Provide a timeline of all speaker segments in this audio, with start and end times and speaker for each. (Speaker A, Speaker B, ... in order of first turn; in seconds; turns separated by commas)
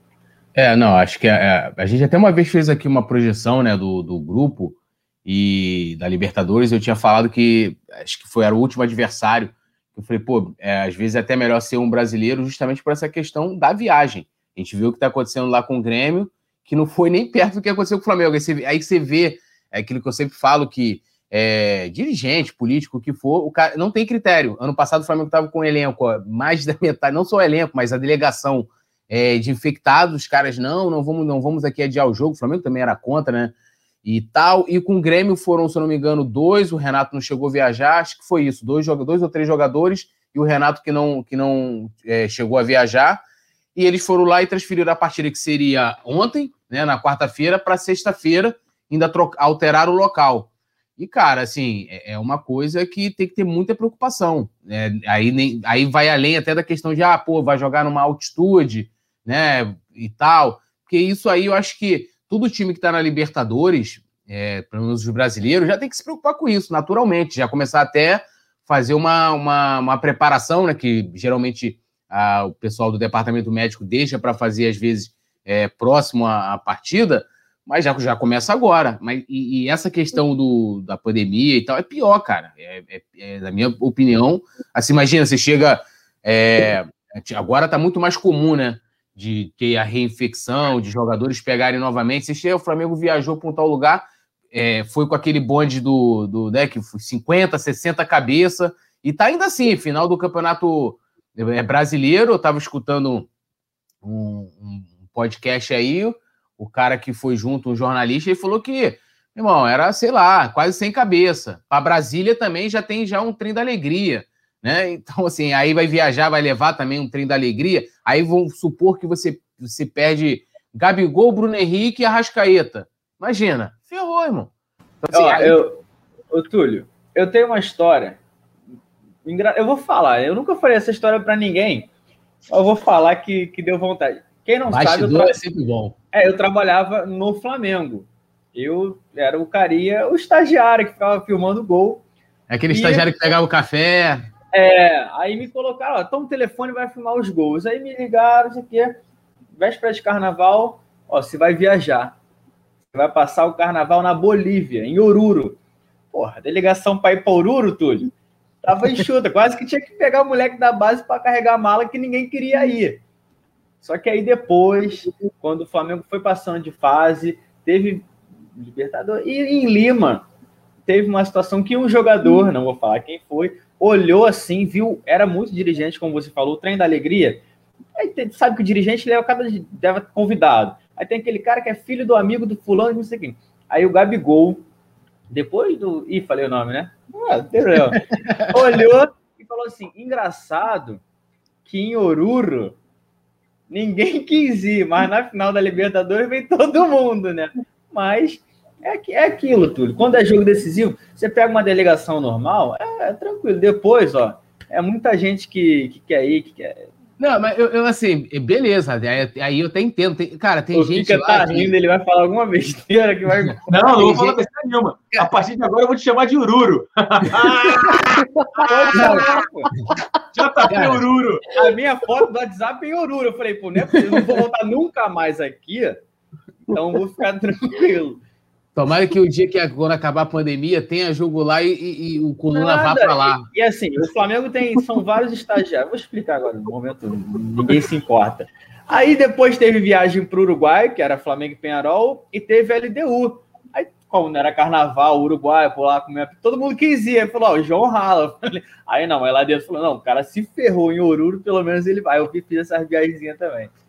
Speaker A: 0.5-43.2, Speaker A: 43.8-103.3, Speaker A: 104.0-124.5, Speaker A: 125.0-125.6, Speaker B: 125.1-128.2, Speaker B: 129.2-131.9, Speaker B: 132.5-135.4, Speaker A: 134.7-135.9, Speaker B: 136.1-142.0, Speaker A: 142.5-144.3, Speaker B: 142.7-143.1, Speaker B: 144.5-149.0, Speaker B: 149.5-152.2, Speaker B: 152.9-155.6, Speaker B: 156.1-158.1, Speaker B: 158.6-163.0, Speaker B: 163.8-170.3, Speaker B: 170.8-177.4, Speaker B: 178.0-184.6, Speaker B: 185.3-191.0, Speaker B: 191.6-192.8, Speaker B: 193.7-206.9, Speaker A: 207.2-211.7, Speaker B: 210.7-214.3, Speaker C: 213.7-219.2, Speaker B: 218.6-219.7, Speaker A: 218.9-219.8, Speaker C: 220.3-221.4, Speaker A: 220.7-221.0, Speaker B: 221.5-226.0, Speaker B: 226.7-228.2, Speaker A: 228.7-233.5, Speaker B: 232.5-253.7